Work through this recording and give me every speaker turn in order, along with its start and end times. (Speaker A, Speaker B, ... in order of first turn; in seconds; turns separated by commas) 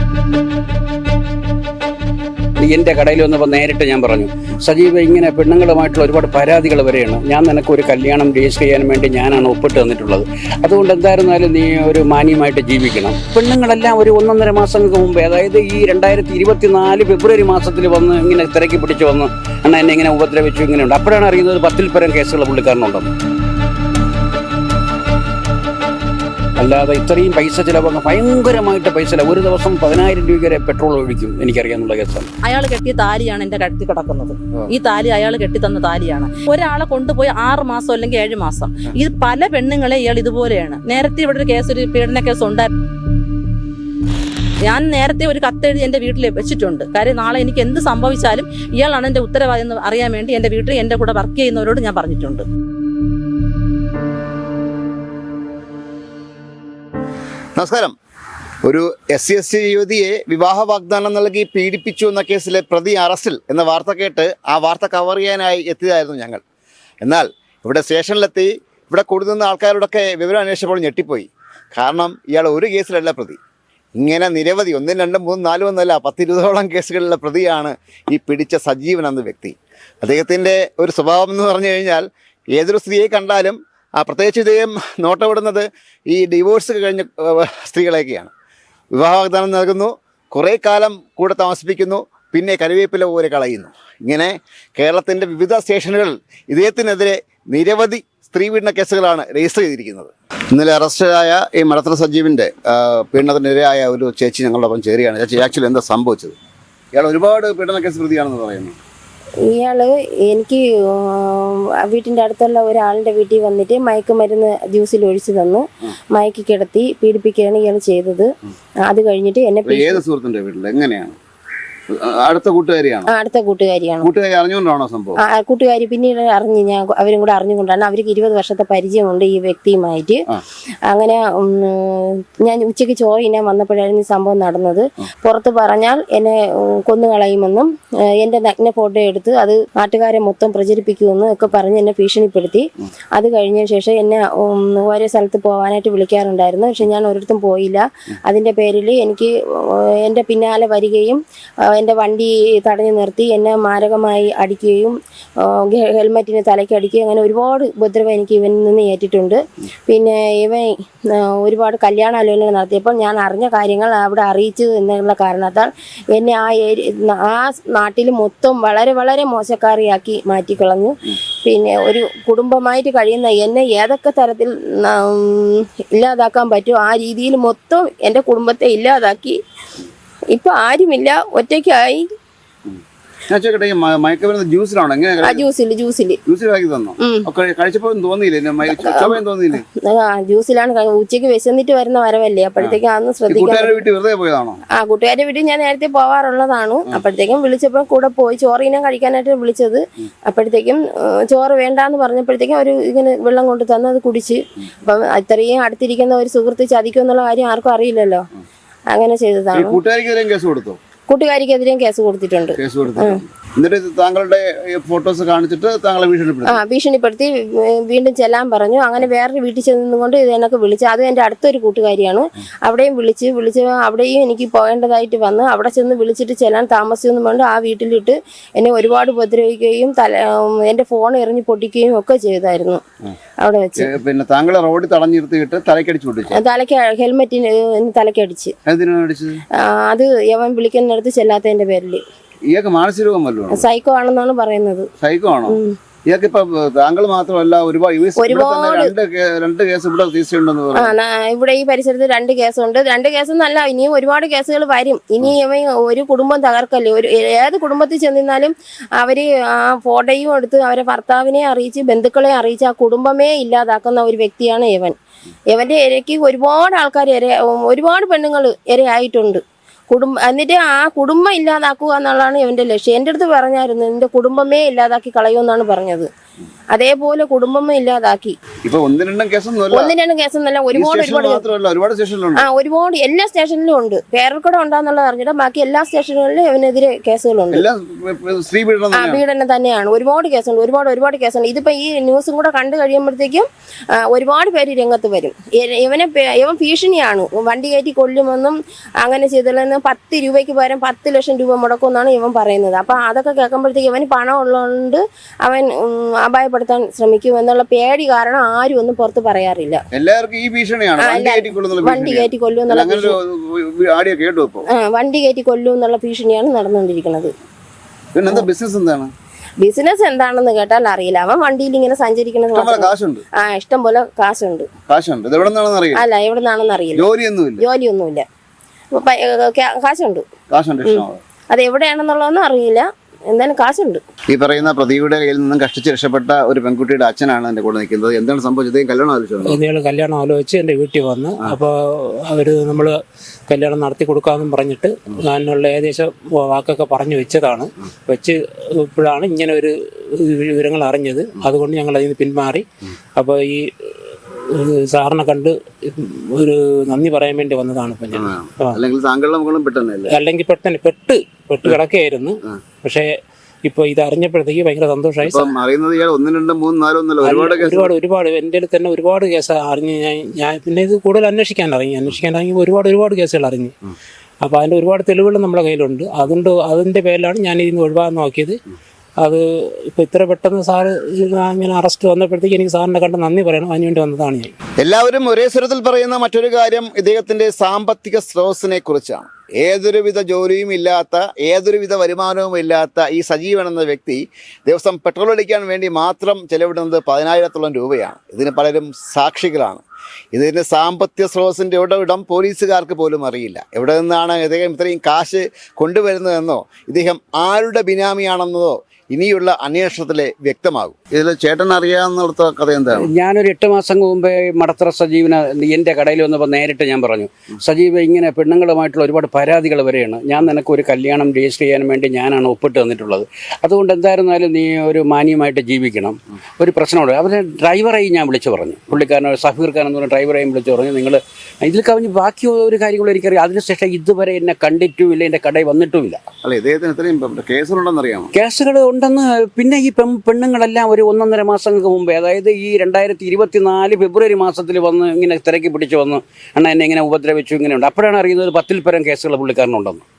Speaker A: 2.6-23.1, Speaker A: 26.6-32.3, Speaker B: 32.4-42.7, Speaker B: 44.6-52.4, Speaker C: 57.5-57.9, Speaker C: 58.6-66.4, Speaker C: 67.0-73.4, Speaker C: 74.0-88.3, Speaker C: 88.9-106.3, Speaker C: 106.9-108.8, Speaker D: 109.5-118.3, Speaker D: 118.8-120.0, Speaker C: 119.7-121.2, Speaker C: 122.0-123.1, Speaker D: 123.1-124.1, Speaker C: 124.0-125.2, Speaker D: 125.2-130.2, Speaker D: 130.9-179.4, Speaker D: 180.3-182.1, Speaker C: 183.3-185.4, Speaker D: 185.2-186.2, Speaker C: 186.2-189.6, Speaker D: 188.7-189.2, Speaker D: 189.8-193.8, Speaker C: 192.6-194.6, Speaker D: 194.8-208.2, Speaker D: 208.9-209.8, Speaker C: 209.5-210.8, Speaker D: 211.1-213.2, Speaker C: 212.5-216.6, Speaker D: 216.4-232.8, Speaker D: 233.4-233.9, Speaker C: 233.8-236.4, Speaker D: 236.3-238.5, Speaker C: 238.7-239.4, Speaker D: 239.6-242.0, Speaker C: 242.5-243.6, Speaker D: 243.5-244.9, Speaker C: 245.0-250.9, Speaker D: 245.5-245.8, Speaker D: 248.2-248.9, Speaker D: 250.7-264.9, Speaker D: 265.5-276.1, Speaker D: 276.7-278.4, Speaker C: 278.6-279.9, Speaker D: 279.7-281.5, Speaker C: 280.7-282.4, Speaker D: 282.3-287.6, Speaker C: 287.5-289.2, Speaker D: 288.9-309.8, Speaker C: 309.9-314.6, Speaker D: 311.0-313.2, Speaker D: 314.7-317.3, Speaker C: 318.1-319.1, Speaker D: 319.6-324.7, Speaker C: 322.5-323.2, Speaker C: 324.9-326.0, Speaker D: 325.9-327.1, Speaker C: 326.9-327.6, Speaker D: 327.6-328.2, Speaker D: 328.9-330.2, Speaker C: 330.5-331.2, Speaker D: 330.9-334.0, Speaker C: 334.3-339.6, Speaker E: 339.4-358.8, Speaker C: 358.2-360.1, Speaker E: 360.1-365.5, Speaker C: 365.2-367.9, Speaker E: 367.2-373.7, Speaker E: 374.4-378.6, Speaker E: 379.2-384.5, Speaker C: 384.8-413.1, Speaker A: 412.9-436.2, Speaker C: 436.4-438.3, Speaker A: 438.3-450.0